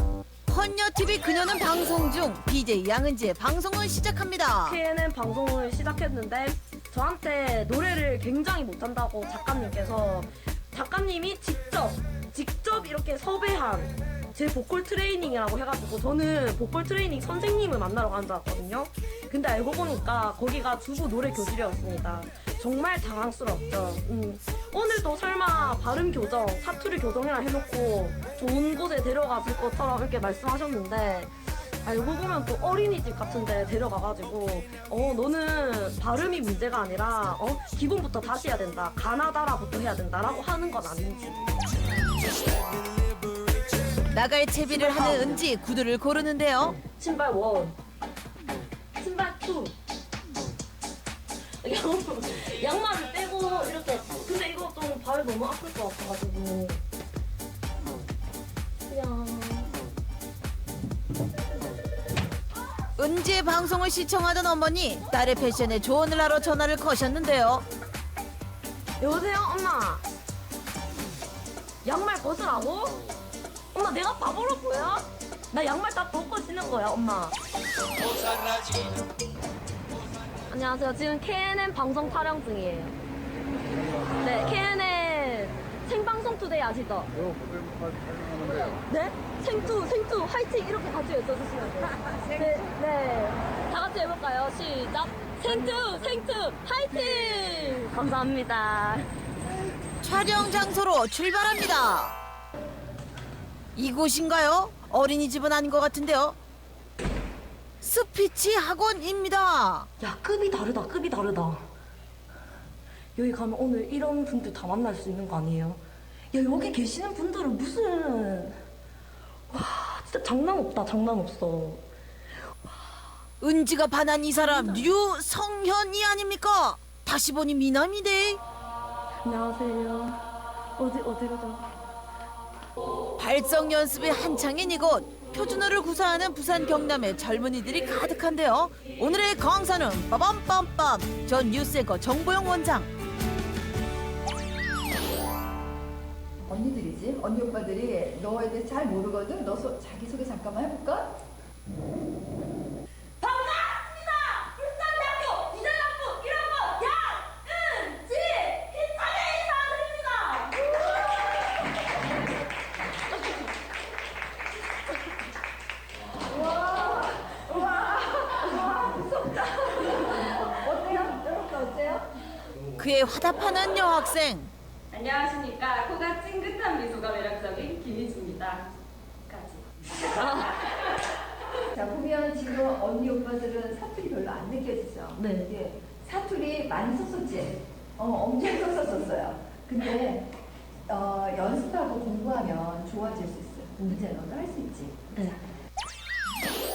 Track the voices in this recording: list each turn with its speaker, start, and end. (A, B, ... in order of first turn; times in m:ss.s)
0:00.5-0:04.8 A
0:04.6-0:31.3 B
0:31.8-0:41.4 B
0:44.1-0:46.8 A
0:44.7-0:45.4 B
0:46.9-0:47.8 B
0:49.0-0:49.7 B
0:51.6-0:56.8 B
0:58.9-0:59.7 B
1:03.0-1:07.6 A
1:09.0-1:10.0 B
1:11.8-1:13.0 B
1:13.7-1:17.4 B
1:20.5-1:23.0 B
1:24.2-1:27.2 B
1:28.4-1:39.0 B
1:40.0-1:42.1 A
1:43.8-1:46.4 A
1:47.8-1:49.9 A
1:50.0-1:51.6 B
1:53.2-1:58.6 B
1:59.5-2:01.8 B
2:02.6-2:03.0 B
2:03.4-2:08.4 A
2:04.3-2:04.9 B
2:09.2-2:10.2 B
2:10.8-2:11.7 B
2:13.2-2:22.9 A
2:26.4-2:31.1 C
2:33.2-2:41.5 B
2:46.3-2:52.1 C
2:52.8-2:54.5 A
2:54.9-2:58.7 D
3:00.2-3:00.6 B
3:01.7-3:10.3 C
3:05.2-3:05.5 B
3:10.9-3:15.2 C
3:13.8-3:14.0 B
3:15.1-3:15.4 B